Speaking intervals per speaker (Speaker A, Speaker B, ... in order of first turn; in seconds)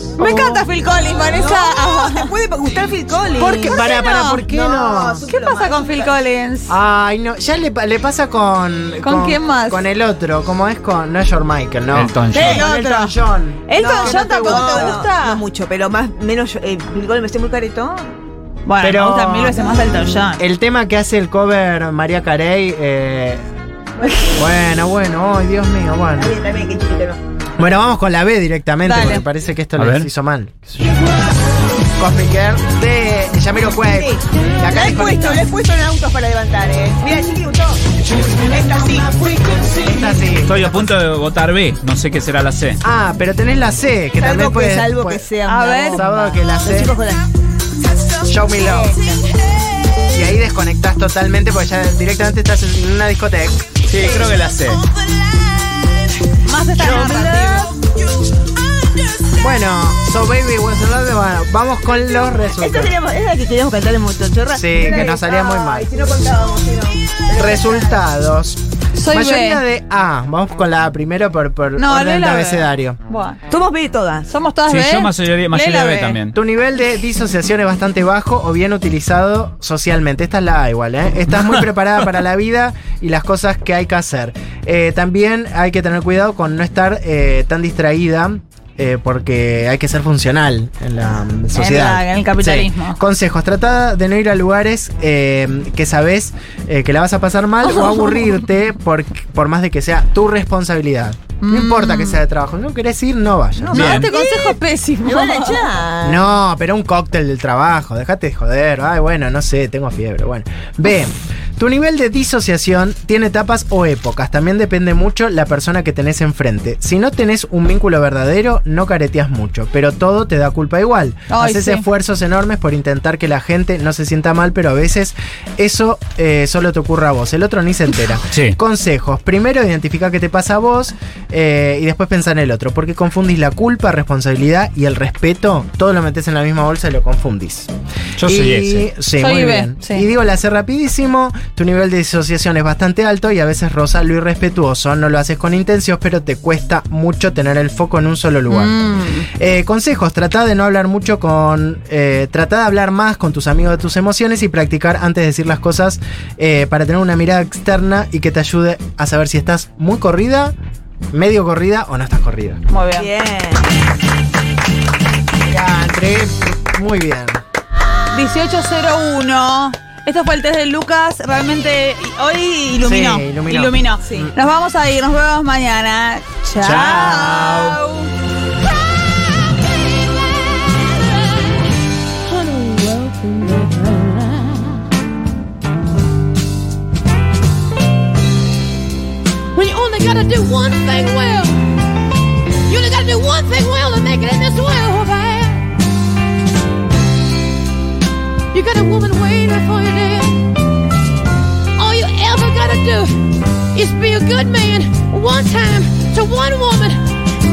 Speaker A: 0.2-0.7, 3.4-5.3, 6.7-15.1, 18.8-19.7, 20.4-23.4, 24.4-26.4, 27.6-31.0, 32.0-35.5, 39.8-40.7, 42.8-45.3, 45.9-46.9, 48.3-49.0, 50.1-53.7, 59.4-63.0, 64.5-65.9, 67.4-73.0, 76.3-104.0, 106.0-137.7, 138.2-148.8, 149.3-160.6, 161.1-162.6, 165.5-167.4, 172.8-174.3, 176.6-177.8
Speaker B: 0.2-2.3, 3.9-4.4, 5.3-6.8, 9.0-9.8, 12.3-13.2, 13.7-15.4, 18.6-20.4, 28.8-29.2, 45.5-46.0, 56.4-57.8, 69.0-69.6, 71.8-73.4, 74.3-76.2, 91.5-93.0, 101.4-102.2, 103.7-105.7, 121.3-121.9, 139.2-140.1, 148.5-149.3, 162.7-163.1, 168.1-178.1
Speaker C: 1.3-3.9, 4.5-6.2, 13.8-18.1, 24.0-24.4, 26.2-27.2, 33.8-37.8, 38.4-39.7, 44.2-47.3, 48.6-49.2, 54.0-54.4, 56.8-57.7, 62.5-68.0, 73.5-74.3, 103.6-106.3, 162.9-163.7, 174.0-174.3
Speaker D: 11.9-12.6, 29.8-30.1, 40.4-42.8, 53.9-54.8, 74.7-76.4, 103.7-104.1, 128.3-128.6, 138.2-138.9
Speaker E: 182.4-184.6, 189.6-191.6, 192.7-195.7, 198.5-200.4, 201.8-203.1, 203.7-207.0